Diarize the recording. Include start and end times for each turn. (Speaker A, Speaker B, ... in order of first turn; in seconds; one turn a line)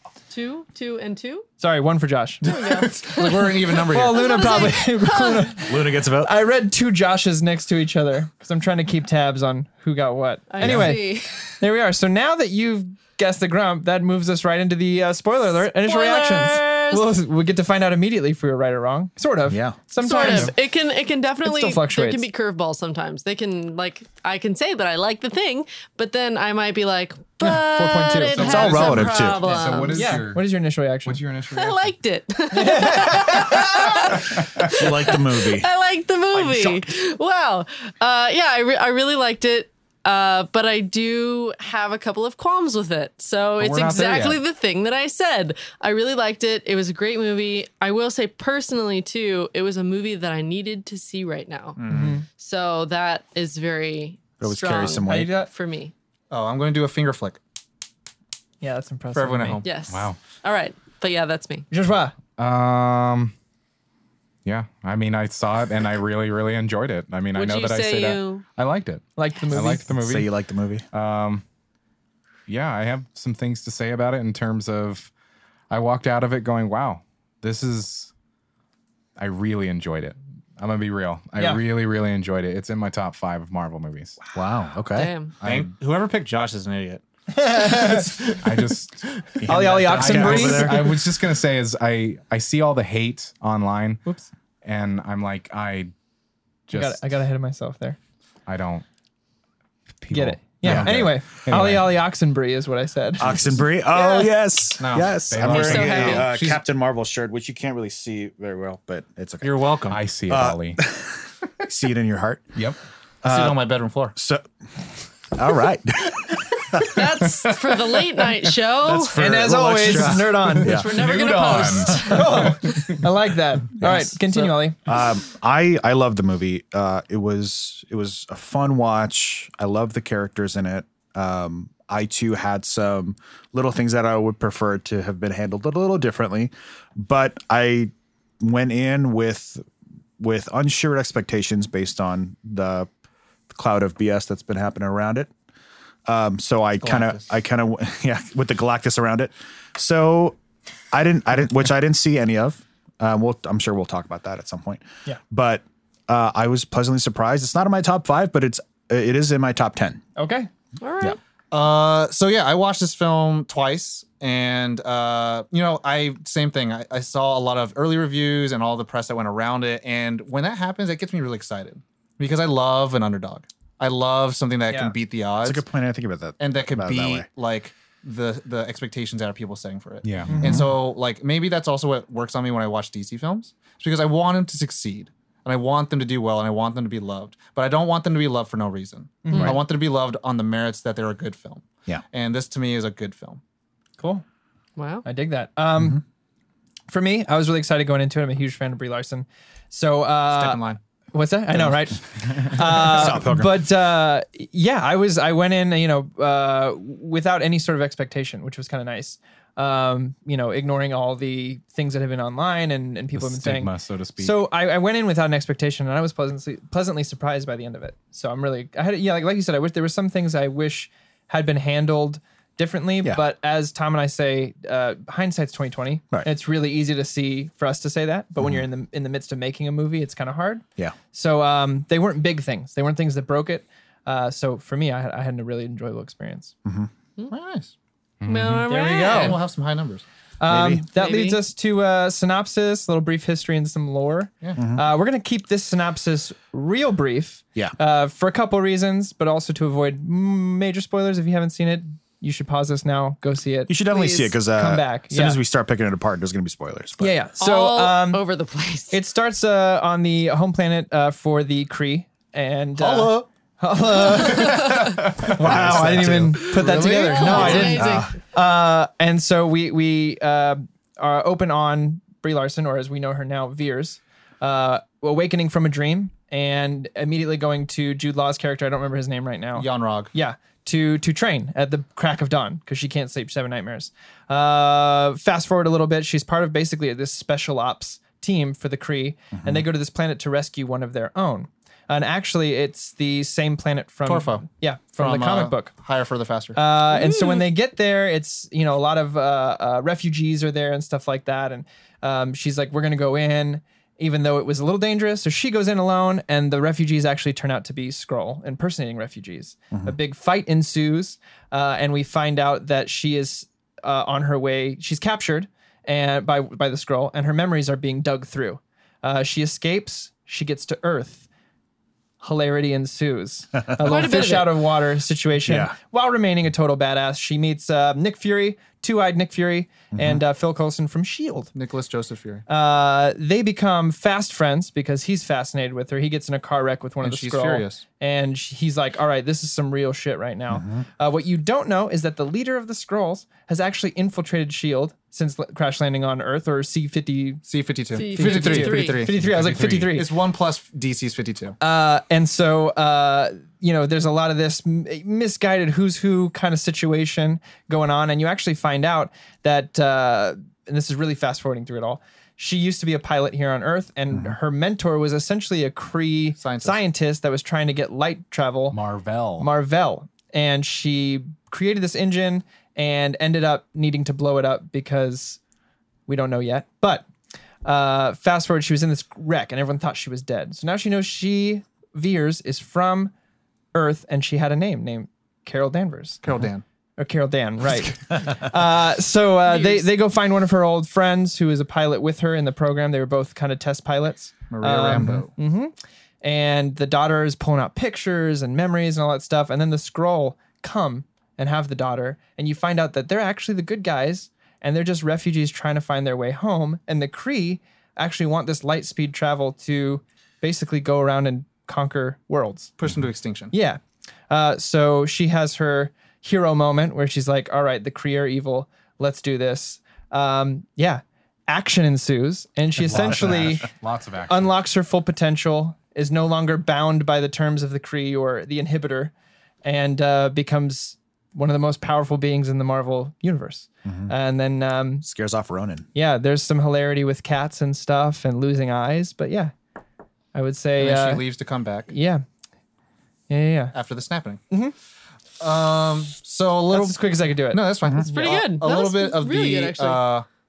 Speaker A: 0.3-1.5
Speaker B: 1.6-2.5
Speaker A: 2.4-3.5
Speaker C: 2.4-4.6
Speaker B: 3.9-20.6
Speaker A: 4.0-5.5
Speaker D: 5.6-6.3
Speaker A: 10.5-11.5
Speaker D: 10.6-10.9
Speaker A: 15.7-17.1
Speaker D: 19.5-20.3
Speaker A: 20.0-30.2
Speaker B: 21.4-22.3
Speaker B: 27.4-28.7
Speaker E: 28.3-30.4
Speaker D: 28.4-29.4
Speaker B: 29.8-31.2
Speaker E: 31.0-31.9
Speaker A: 31.5-55.9
Speaker B: 32.5-34.0
Speaker E: 34.3-34.7
Speaker D: 34.7-35.7
Speaker B: 36.3-36.8
Speaker E: 43.6-44.4
Speaker C: 51.8-52.2
Speaker B: 51.9-52.2
Speaker D: 54.4-55.3
Speaker B: 55.1-55.5
Speaker C: 56.3-57.4
Speaker B: 58.6-59.6
Speaker C: 59.1-59.7
Speaker A: 59.6-61.6
Speaker E: 59.9-60.2
Speaker B: 61.7-62.1
Speaker E: 62.4-63.3
Speaker E: 64.4-70.3
Speaker A: 67.3-68.4
Speaker B: 69.2-69.9
Speaker D: 70.0-70.8
Speaker E: 70.9-71.4
Speaker E: 72.5-75.1
Speaker E: 75.7-78.1
Speaker E: 79.2-84.2
Speaker B: 81.4-81.6
Speaker D: 84.3-85.1
Speaker A: 84.9-85.3
Speaker C: 85.4-87.0
Speaker E: 85.4-85.7
Speaker B: 87.3-88.4
Speaker C: 87.6-87.9
Speaker E: 88.4-89.0
Speaker D: 89.4-91.0
Speaker B: 89.5-90.9
Speaker E: 89.5-94.0
Speaker E: 94.6-95.9
Speaker E: 96.7-97.1
Speaker B: 96.7-98.0
Speaker E: 98.5-98.8
Speaker E: 100.0-101.9
Speaker B: 100.1-104.3
Speaker D: 100.6-101.0
Speaker D: 103.2-109.5
Speaker E: 104.8-106.6
Speaker A: 105.4-106.3
Speaker C: 109.4-110.0
Speaker E: 109.9-110.8
Speaker D: 110.3-112.6
Speaker D: 113.2-114.5
Speaker C: 113.2-114.2
Speaker D: 115.3-121.0
Speaker A: 116.8-119.4
Speaker B: 119.2-120.8
Speaker A: 120.6-122.9
Speaker E: 120.8-122.8
Speaker B: 122.0-124.8
Speaker D: 123.8-139.6
Speaker D: 140.2-142.9
Speaker D: 143.5-145.3
Speaker D: 146.1-150.4
Speaker C: 146.8-147.3
Speaker D: 150.9-160.0
Speaker B: 160.2-160.5
Speaker A: 160.8-161.2
Speaker C: 161.5-175.6
Speaker B: 174.7-174.9
Speaker D: 175.4-177.2
Speaker C: 176.4-193.4
Speaker E: 180.0-180.6
Speaker D: 180.3-180.7
Speaker B: 189.2-189.6
Speaker B: 194.0-194.2
Speaker A: 194.8-195.1
Speaker B: 195.0-196.0
Speaker B: 196.9-200.6
Speaker C: 200.3-200.8
Speaker B: 201.1-236.5
Speaker D: 202.2-203.6
Speaker E: 213.1-214.5
Speaker D: 228.4-228.6
Speaker D: 236.6-236.9
Speaker C: 237.3-237.7
Speaker E: 238.2-238.7
Speaker A: 238.2-239.4
Speaker B: 238.7-239.4
Speaker C: 238.9-240.0
Speaker B: 240.4-255.4
Speaker D: 240.5-240.8
Speaker A: 240.9-241.4
Speaker D: 244.6-244.8
Speaker D: 253.7-257.2
Speaker B: 257.0-258.2
Speaker A: 257.4-259.0
Speaker B: 258.9-295.7
Speaker C: 262.8-263.2
Speaker C: 264.1-264.8
Speaker D: 265.1-268.1
Speaker C: 266.4-267.8
Speaker A: 266.7-268.1
Speaker C: 279.6-280.1
Speaker D: 289.3-289.6
Speaker C: 294.1-294.4
Speaker C: 295.0-296.6
Speaker B: 296.5-321.3
Speaker A: 296.9-297.4
Speaker B: 322.2-331.5
Speaker A: 323.8-324.6
Speaker D: 325.4-325.7
Speaker D: 329.9-330.2
Speaker C: 331.5-332.4
Speaker B: 332.5-347.4
Speaker C: 337.0-337.8
Speaker D: 340.5-340.9
Speaker C: 347.5-351.6
Speaker A: 347.9-349.0
Speaker B: 348.0-350.1
Speaker E: 349.1-349.9
Speaker B: 351.6-368.8
Speaker C: 366.4-366.8
Speaker E: 368.7-369.5
Speaker B: 369.4-375.4
Speaker B: 376.1-377.0
Speaker B: 377.6-383.1
Speaker B: 383.7-386.2
Speaker C: 386.2-386.6
Speaker B: 387.0-412.7
Speaker A: 389.5-389.9
Speaker C: 394.5-395.3
Speaker C: 412.8-413.5
Speaker B: 413.5-423.7
Speaker E: 422.8-424.5
Speaker D: 422.9-423.5
Speaker B: 424.3-429.1
Speaker B: 429.6-435.1
Speaker D: 433.8-434.1
Speaker D: 435.0-435.9
Speaker B: 435.9-439.5
Speaker B: 440.3-441.2
Speaker C: 440.8-441.9
Speaker B: 441.9-442.2
Speaker B: 443.3-443.7
Speaker C: 443.7-444.4
Speaker C: 445.4-450.2
Speaker B: 446.7-448.3
Speaker A: 448.1-450.0